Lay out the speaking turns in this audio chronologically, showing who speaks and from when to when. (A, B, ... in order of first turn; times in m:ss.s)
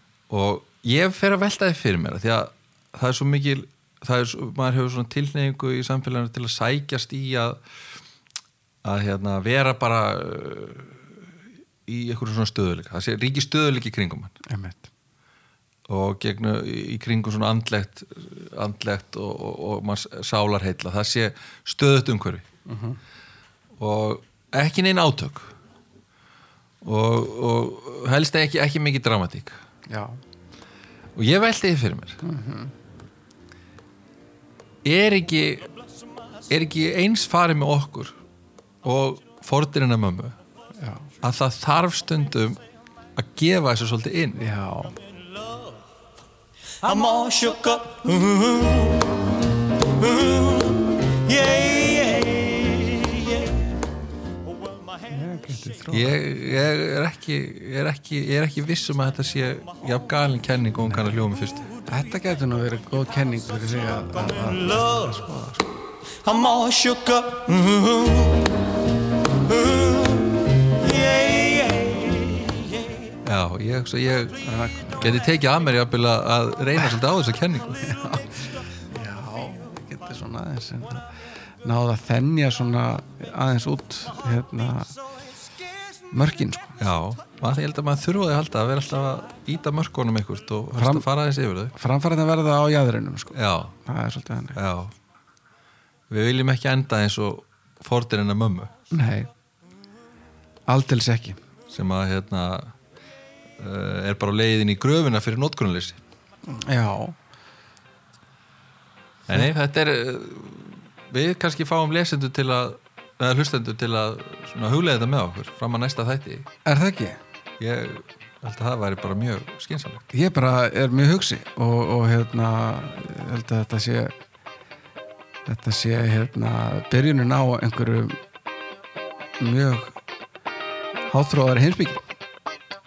0:00.3-0:07.6 A
0:08.8-0:11.2 A
0:11.9-0:14.4 A
0:14.5-0:14.9 B
0:15.9-0:22.4 A
0:22.7-0:23.0 B
0:23.8-0:25.5 A
0:26.8-0:29.6 A
0:29.9-0:30.2 B
0:31.2-0:32.2 A
0:32.2-0:32.7 B
0:34.8-0:35.7 A
0:36.5-0:38.2 A
0:38.8-0:40.4 A
0:40.8-0:41.1 B
0:41.2-0:42.6 A
0:43.2-0:44.4 A
0:44.4-0:45.0 B
0:46.8-0:49.2 C
0:50.0-0:53.6 C
0:55.1-0:56.2 B
0:55.9-1:01.7 A
1:01.9-1:05.7 B
1:06.2-1:08.5 C
1:09.5-1:13.0 C
1:13.2-1:14.4 A
1:14.4-1:15.2 B
1:15.0-1:17.8 A
1:17.8-1:21.1 B
1:21.6-1:25.0 B
1:26.1-1:26.8 B
1:26.8-1:31.7 A
1:30.7-1:31.1 B
1:31.8-1:34.6 B
1:33.3-1:33.7 A
1:34.6-1:34.9 A
1:36.1-1:38.7 A
1:38.9-1:39.3 B
1:40.7-1:41.4 B
1:41.7-1:42.7 A
1:43.6-1:46.0 A
1:46.5-1:47.2 B
1:49.3-1:56.5 A
1:56.6-1:57.2 B
1:57.6-2:00.0 A
2:00.1-2:04.1 B
2:05.5-2:08.2 B
2:09.4-2:10.0 B
2:11.1-2:12.0 B